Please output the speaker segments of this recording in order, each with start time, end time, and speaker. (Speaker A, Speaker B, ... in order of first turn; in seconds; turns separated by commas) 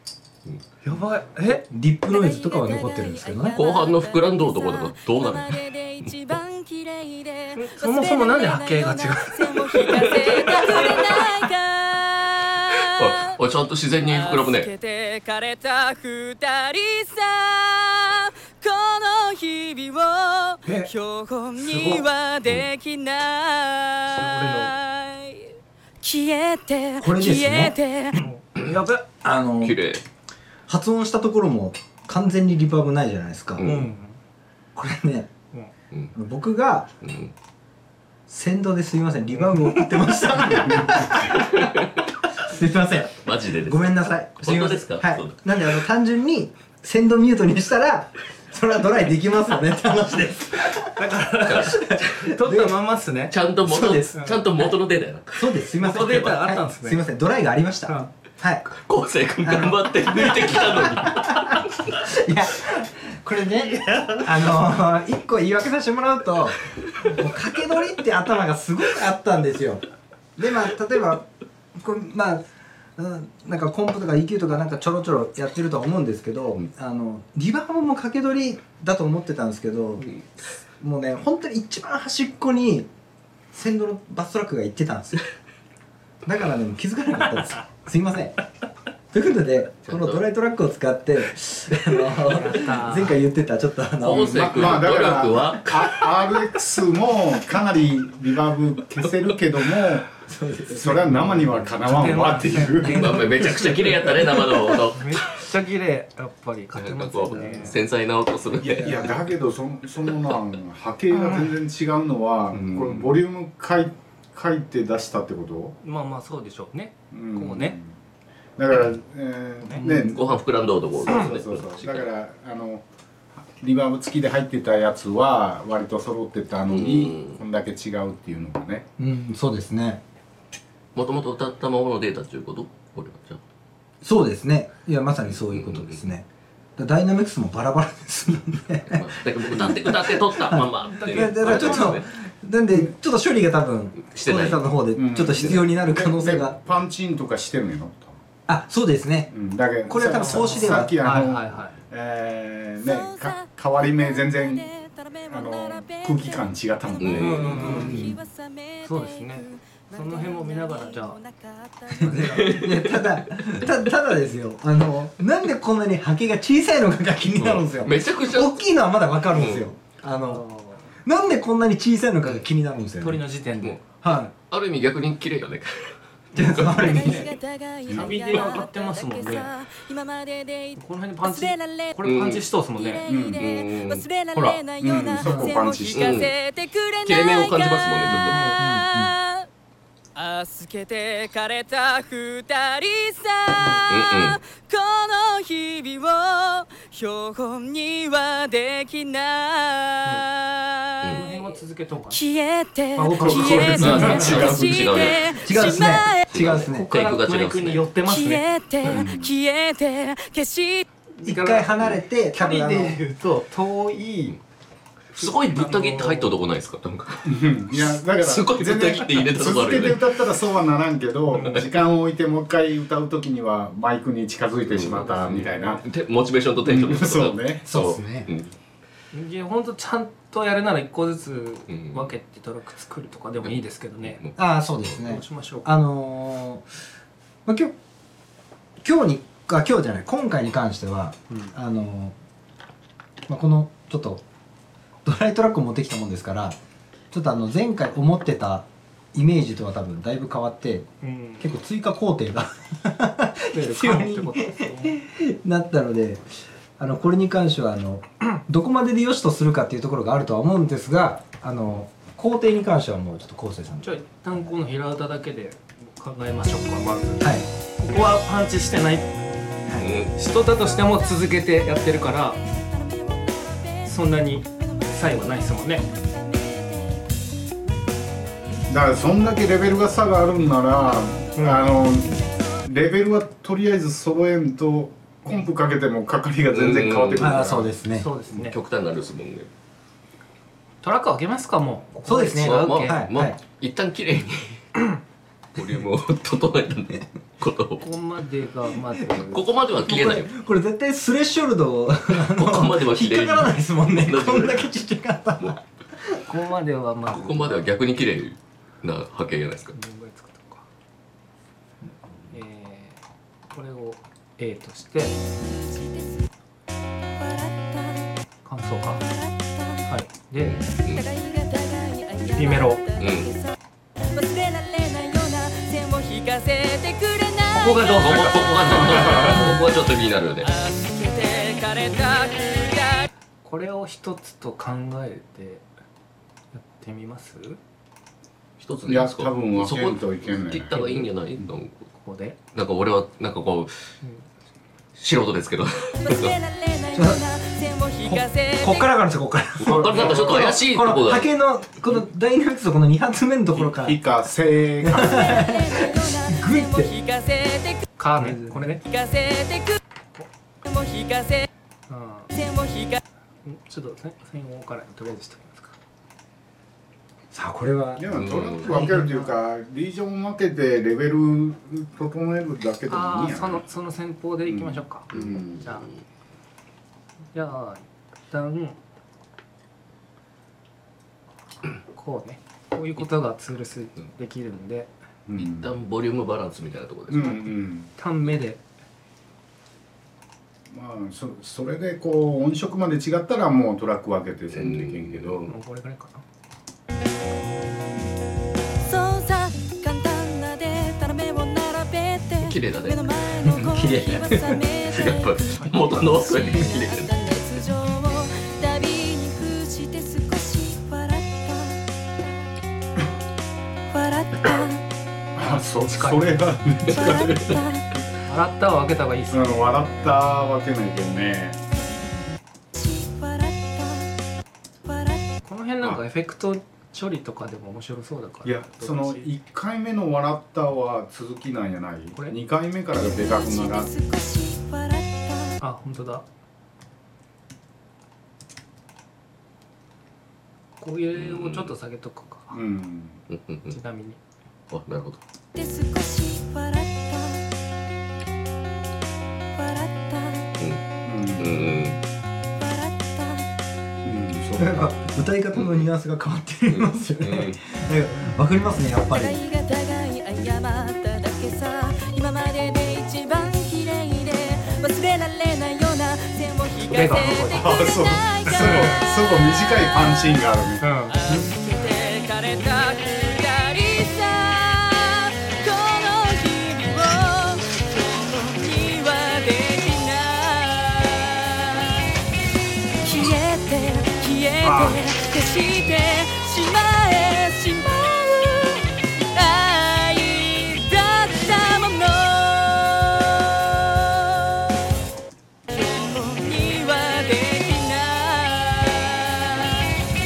Speaker A: 0.8-1.7, Speaker B: 1.5-3.6, Speaker C: 2.0-13.1, Speaker D: 3.5-6.1, Speaker A: 7.5-9.8, Speaker D: 9.8-11.3, Speaker D: 12.8-14.7, Speaker C: 14.1-25.5, Speaker A: 21.6-22.1, Speaker A: 24.1-24.8, Speaker C: 26.0-28.2, Speaker B: 27.0-27.8, Speaker A: 28.1-29.1, Speaker B: 29.2-29.8, Speaker D: 29.6-30.0, Speaker B: 30.7-33.7, Speaker D: 33.6-33.9, Speaker A: 33.6-34.2, Speaker B: 34.8-35.3, Speaker B: 36.1-36.9, Speaker D: 37.0-37.3, Speaker B: 38.3-52.8, Speaker D: 41.3-41.9, Speaker D: 43.0-45.8, Speaker A: 50.6-53.4, Speaker D: 51.4-52.2, Speaker D: 53.3-56.5, Speaker B: 53.6-54.2, Speaker A: 54.1-54.4, Speaker B: 55.3-58.7, Speaker A: 55.8-57.0, Speaker D: 58.7-62.1, Speaker B: 59.4-69.8, Speaker B: 70.3-82.9, Speaker B: 83.5-85.3, Speaker B: 86.2-88.4, Speaker B: 89.1-94.8, Speaker D: 89.8-90.2, Speaker A: 92.2-93.2, Speaker D: 94.0-96.4, Speaker E: 94.3-100.1, Speaker B: 100.2-102.7, Speaker E: 100.7-102.9, Speaker A: 101.7-104.0, Speaker D: 102.7-105.3, Speaker B: 104.3-104.8, Speaker A: 104.9-107.8, Speaker D: 106.7-109.2, Speaker E: 108.6-115.7, Speaker B: 108.7-109.3, Speaker A: 111.1-111.6, Speaker D: 112.5-113.2, Speaker A: 115.8-117.8, Speaker E: 117.1-118.0, Speaker E: 118.6-120.2, Speaker A: 119.6-120.3, Speaker D: 119.9-122.1, Speaker E: 120.9-122.8, Speaker E: 123.6-128.8, Speaker D: 126.6-127.4, Speaker B: 129.0-130.0, Speaker D: 130.9-133.4, Speaker B: 134.0-136.2, Speaker D: 135.2-136.1, Speaker B: 136.8-146.6, Speaker D: 138.8-142.2, Speaker A: 140.8-141.7, Speaker D: 144.0-144.7, Speaker E: 145.0-148.2, Speaker D: 145.4-145.7, Speaker B: 148.5-149.3, Speaker E: 149.3-154.7, Speaker B: 149.9-150.9, Speaker A: 149.9-151.8, Speaker C: 152.8-157.3, Speaker E: 155.3-158.1, Speaker D: 157.0-158.1, Speaker A: 157.2-157.9, Speaker B: 157.7-158.1, Speaker C: 157.8-162.5, Speaker A: 158.8-161.2, Speaker B: 162.0-170.4, Speaker D: 162.1-163.7, Speaker D: 167.3-168.7, Speaker D: 169.3-169.7, Speaker A: 170.3-170.9, Speaker B: 171.0-173.2, Speaker A: 173.0-173.8, Speaker D: 173.6-177.2, Speaker B: 174.0-174.3, Speaker A: 176.3-177.1, Speaker B: 176.3-177.3, Speaker C: 176.8-182.0, Speaker E: 177.9-178.2, Speaker A: 177.9-179.5, Speaker A: 180.8-183.1, Speaker D: 182.0-182.4, Speaker C: 182.8-189.5, Speaker E: 183.1-183.4, Speaker D: 183.3-184.1, Speaker E: 184.3-186.1, Speaker B: 185.2-185.6, Speaker D: 185.9-186.3, Speaker D: 187.0-188.4, Speaker B: 188.1-189.1, Speaker C: 190.1-201.2, Speaker D: 193.9-194.4, Speaker D: 201.0-201.3, Speaker A: 201.1-202.2, Speaker C: 202.1-206.3, Speaker A: 202.9-204.5, Speaker D: 203.2-207.9, Speaker E: 203.2-203.7, Speaker B: 203.8-204.5, Speaker B: 205.3-207.0, Speaker A: 206.6-208.9, Speaker C: 208.0-210.9, Speaker E: 208.9-209.3, Speaker A: 211.2-214.3, Speaker B: 211.2-213.0, Speaker D: 215.1-220.2, Speaker A: 215.2-216.3, Speaker E: 217.3-225.8, Speaker A: 221.3-221.7, Speaker D: 221.3-221.6, Speaker D: 224.7-228.5, Speaker A: 224.9-225.8, Speaker E: 226.6-227.7, Speaker B: 227.7-228.3, Speaker A: 229.1-234.2, Speaker D: 231.7-232.2, Speaker D: 233.4-234.3, Speaker B: 234.4-236.7, Speaker A: 235.1-235.8, Speaker B: 237.4-237.7, Speaker B: 238.8-242.1, Speaker B: 243.3-244.2, Speaker B: 245.0-246.6, Speaker B: 247.1-256.2, Speaker A: 251.0-251.5, Speaker A: 253.5-255.0, Speaker B: 256.8-264.0, Speaker A: 263.8-269.1, Speaker B: 267.2-267.5, Speaker B: 269.7-269.9, Speaker D: 269.8-270.1, Speaker A: 270.1-272.5, Speaker C: 272.6-273.8, Speaker A: 273.8-275.9, Speaker C: 274.7-277.1, Speaker C: 277.7-278.6, Speaker E: 278.7-287.7, Speaker A: 281.3-282.0, Speaker D: 286.5-287.4, Speaker B: 287.2-288.1, Speaker A: 287.9-288.6, Speaker D: 288.3-289.5, Speaker A: 290.8-293.1, Speaker B: 292.0-293.4, Speaker D: 292.3-294.7, Speaker D: 295.6-297.9, Speaker A: 297.8-299.6, Speaker D: 299.1-300.3, Speaker B: 299.8-306.3, Speaker D: 302.1-304.8, Speaker A: 306.3-307.7, Speaker D: 307.1-309.7, Speaker A: 309.7-310.6, Speaker A: 312.3-315.2, Speaker C: 317.2-318.1, Speaker A: 318.4-319.0, Speaker C: 319.1-319.8, Speaker A: 319.8-320.7, Speaker D: 320.4-321.1, Speaker C: 320.9-322.8, Speaker A: 322.3-322.9, Speaker D: 323.0-323.4, Speaker C: 324.1-328.2, Speaker A: 327.5-329.5, Speaker D: 328.0-330.5, Speaker C: 330.5-333.0, Speaker A: 333.4-335.6, Speaker A: 336.5-337.6, Speaker D: 338.6-341.9, Speaker E: 338.9-340.8, Speaker A: 341.9-342.4, Speaker D: 342.5-343.9, Speaker D: 344.9-346.4, Speaker C: 346.1-348.8, Speaker B: 346.9-347.4, Speaker B: 348.0-354.0, Speaker D: 349.6-351.3, Speaker E: 353.7-355.4, Speaker B: 354.8-356.9, Speaker C: 355.3-356.3, Speaker C: 356.9-357.8, Speaker A: 358.0-358.9, Speaker C: 358.9-359.8, Speaker C: 360.6-361.4, Speaker A: 361.9-362.4, Speaker C: 362.4-363.0, Speaker A: 363.4-365.7, Speaker B: 367.3-369.1, Speaker E: 368.0-373.6, Speaker D: 368.1-368.8, Speaker A: 368.8-369.4, Speaker A: 372.9-375.9, Speaker D: 375.1-375.9, Speaker A: 377.3-378.8, Speaker A: 381.8-384.9, Speaker E: 385.3-385.7, Speaker D: 385.4-387.4, Speaker E: 387.1-387.9, Speaker A: 387.2-388.6, Speaker E: 390.7-395.4, Speaker D: 394.5-395.5, Speaker A: 395.4-396.2, Speaker C: 398.9-411.8, Speaker D: 402.4-403.2, Speaker B: 403.4-404.4, Speaker D: 404.3-407.4, Speaker A: 405.6-405.9, Speaker C: 413.9-414.8, Speaker E: 415.4-417.5, Speaker A: 415.9-416.6, Speaker C: 416.9-417.8, Speaker D: 417.3-417.6, Speaker A: 418.1-420.3, Speaker E: 419.3-421.6, Speaker C: 422.8-424.1, Speaker C: 424.9-425.3, Speaker A: 425.4-429.4, Speaker E: 428.5-433.9, Speaker A: 432.1-432.4, Speaker C: 433.2-435.5, Speaker A: 435.6-436.2, Speaker A: 440.8-442.6, Speaker D: 441.1-441.8, Speaker E: 442.5-443.2, Speaker D: 443.3-443.8, Speaker A: 443.7-444.2, Speaker D: 444.7-445.2, Speaker C: 445.5-447.4, Speaker C: 449.6-450.5, Speaker E: 451.0-451.6, Speaker D: 451.4-452.0, Speaker C: 452.6-453.4, Speaker E: 454.0-454.9, Speaker B: 454.6-459.4, Speaker D: 455.5-455.9, Speaker D: 456.7-457.6, Speaker C: 459.1-469.0, Speaker A: 466.9-467.7, Speaker E: 467.6-470.8, Speaker A: 468.4-469.2, Speaker A: 470.8-471.5, Speaker C: 471.1-482.1, Speaker C: 483.0-494.7, Speaker C: 495.7-499.9